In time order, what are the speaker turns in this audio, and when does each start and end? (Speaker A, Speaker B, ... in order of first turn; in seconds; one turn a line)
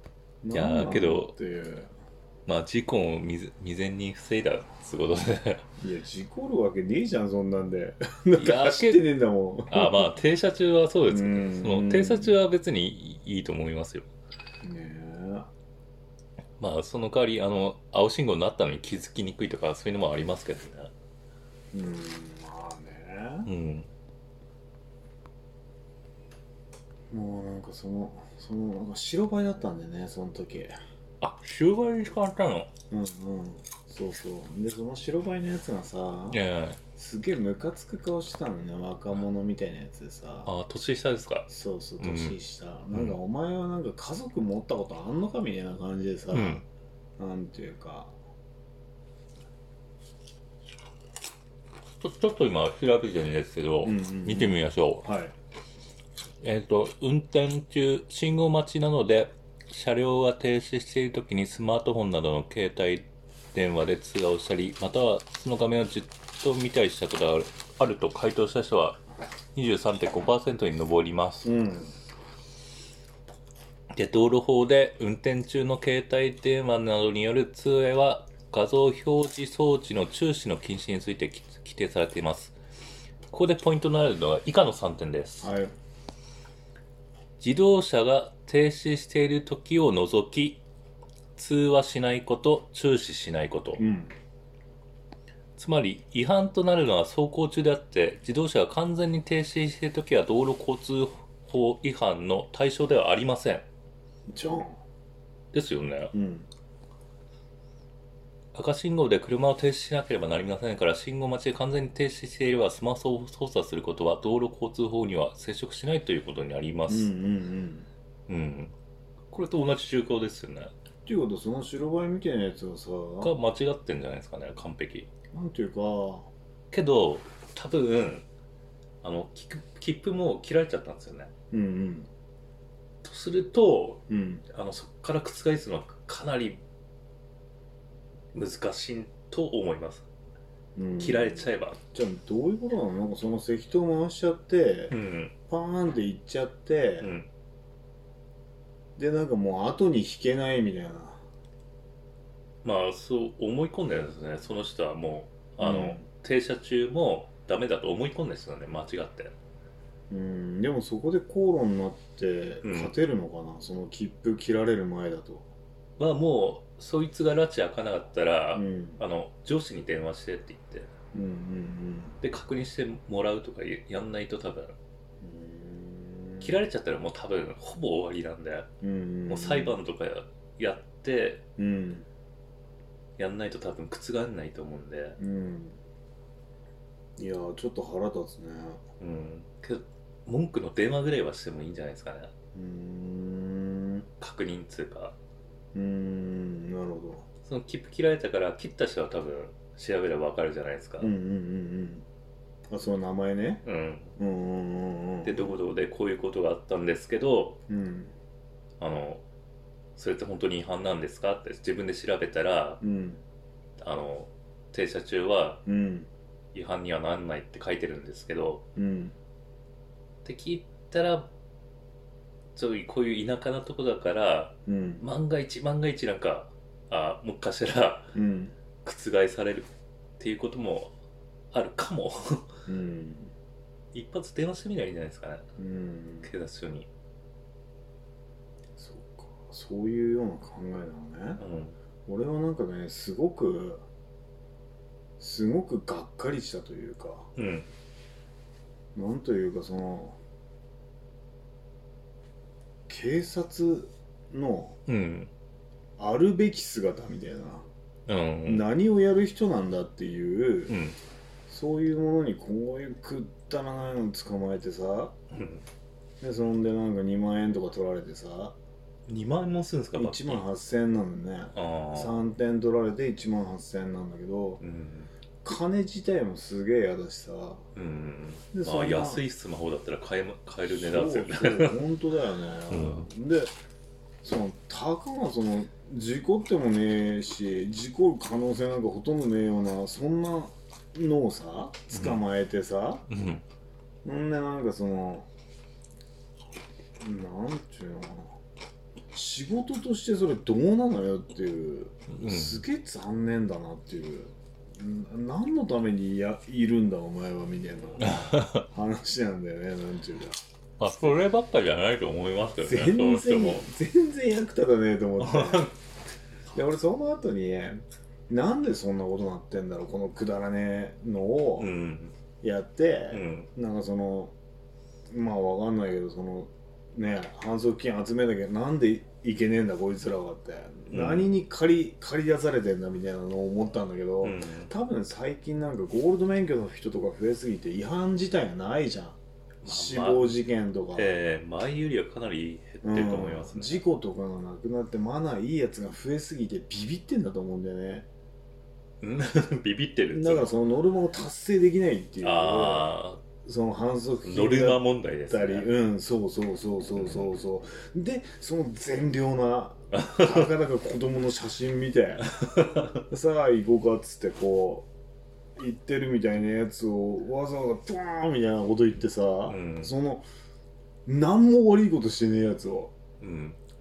Speaker A: 0.4-1.9
Speaker B: 0.5-1.3
Speaker B: 2.5-5.7
Speaker A: 5.8-10.1
Speaker B: 8.4-9.1
Speaker B: 9.7-14.1
Speaker A: 11.1-12.3
Speaker A: 14.6-15.5
Speaker B: 16.6-20.9
Speaker A: 21.7-23.5
Speaker B: 23.4-23.9
Speaker A: 27.1-30.8
Speaker B: 31.2-32.7
Speaker A: 32.9-36.4
Speaker B: 36.3-36.8
Speaker A: 37.0-40.5
Speaker B: 40.5-41.5
Speaker A: 41.5-46.6
Speaker B: 42.0-42.4
Speaker B: 42.9-43.2
Speaker B: 46.3-46.6
Speaker A: 47.2-48.1
Speaker B: 52.0-55.0
Speaker A: 53.8-55.4
Speaker B: 56.4-69.0
Speaker B: 69.5-71.5
Speaker A: 71.4-71.9
Speaker B: 73.9-82.5
Speaker B: 83.3-85.5
Speaker A: 85.4-85.7
Speaker B: 87.4-90.6
Speaker B: 91.4-93.8
Speaker A: 93.8-94.1
Speaker B: 95.6-103.7
Speaker A: 104.3-104.8
Speaker B: 105.5-106.1
Speaker A: 106.1-106.5
Speaker B: 108.5-117.1
Speaker A: 116.9-117.9
Speaker B: 118.3-118.7
Speaker B: 119.3-120.7
Speaker A: 121.1-123.3
Speaker B: 123.2-125.1
Speaker A: 125.3-126.3
Speaker B: 126.7-128.3
Speaker B: 129.0-131.3
Speaker A: 131.5-132.1
Speaker B: 133.0-136.6
Speaker A: 134.1-134.4
Speaker B: 138.3-140.1
Speaker A: 140.8-144.9
Speaker B: 141.0-141.8
Speaker B: 144.9-145.3
Speaker A: 145.5-147.1
Speaker B: 147.0-147.3
Speaker A: 149.0-151.2
Speaker B: 152.6-159.3
Speaker A: 155.6-156.1
Speaker A: 160.1-165.5
Speaker B: 162.6-162.9
Speaker B: 166.0-170.9
Speaker A: 168.6-169.0
Speaker A: 171.1-172.2
Speaker B: 172.2-174.8
Speaker A: 175.2-176.5
Speaker B: 176.4-178.7
Speaker A: 178.8-179.8
Speaker B: 179.3-181.4
Speaker A: 181.6-182.1
Speaker B: 183.2-185.2
Speaker A: 185.2-185.8
Speaker A: 187.2-188.8
Speaker B: 189.0-192.3
Speaker A: 192.5-194.1
Speaker B: 194.2-195.2
Speaker A: 195.7-197.2
Speaker B: 197.4-201.1
Speaker A: 201.0-202.1
Speaker A: 202.7-203.6
Speaker B: 203.7-204.2
Speaker A: 204.2-205.6
Speaker B: 205.2-207.6
Speaker A: 207.7-208.1
Speaker B: 208.8-209.2
Speaker B: 210.0-212.8
Speaker A: 212.8-213.2
Speaker B: 213.8-215.6
Speaker A: 215.7-216.1
Speaker B: 216.5-218.6
Speaker A: 218.8-219.2
Speaker B: 220.2-221.3
Speaker B: 222.6-228.2
Speaker A: 224.7-225.0
Speaker A: 228.1-228.6
Speaker B: 228.8-230.9
Speaker B: 231.5-232.6
Speaker A: 232.7-233.3
Speaker B: 233.9-235.5
Speaker A: 235.6-236.3
Speaker B: 236.2-236.9
Speaker A: 238.8-241.4
Speaker B: 241.4-241.8
Speaker A: 242.1-243.8
Speaker A: 245.2-247.3
Speaker B: 247.4-247.7
Speaker A: 248.9-250.2
Speaker A: 252.9-254.8
Speaker B: 254.9-255.3
Speaker A: 256.0-257.7
Speaker B: 258.1-258.7
Speaker A: 258.5-260.8
Speaker B: 260.7-261.0
Speaker A: 261.5-265.1
Speaker B: 265.3-265.6
Speaker A: 266.2-268.6
Speaker B: 269.1-270.4
Speaker A: 269.9-274.6
Speaker B: 271.5-272.2
Speaker B: 274.6-275.1
Speaker A: 275.4-277.6
Speaker B: 277.8-281.8
Speaker A: 278.5-279.2
Speaker A: 280.7-283.5
Speaker B: 282.7-283.1
Speaker A: 284.2-293.1
Speaker B: 291.9-292.2
Speaker B: 293.1-293.4
Speaker A: 294.0-295.3
Speaker A: 297.0-298.4
Speaker A: 299.1-311.2
Speaker B: 302.1-302.6
Speaker B: 308.0-308.7
Speaker B: 310.8-313.7
Speaker A: 312.6-315.7
Speaker B: 315.2-315.7
Speaker A: 316.5-321.7
Speaker B: 321.6-322.1
Speaker A: 322.4-324.3
Speaker B: 323.1-323.5
Speaker A: 325.1-341.1
Speaker B: 330.9-331.3
Speaker B: 334.2-334.7
Speaker B: 339.6-340.4
Speaker B: 340.9-343.8
Speaker A: 342.8-348.1
Speaker B: 349.0-350.6
Speaker A: 350.1-362.3
Speaker B: 352.2-353.2
Speaker B: 354.2-355.7
Speaker B: 359.9-360.3
Speaker B: 362.4-363.0
Speaker A: 363.1-364.9
Speaker A: 365.6-370.2
Speaker B: 369.5-369.9
Speaker A: 371.1-372.9
Speaker B: 373.2-373.6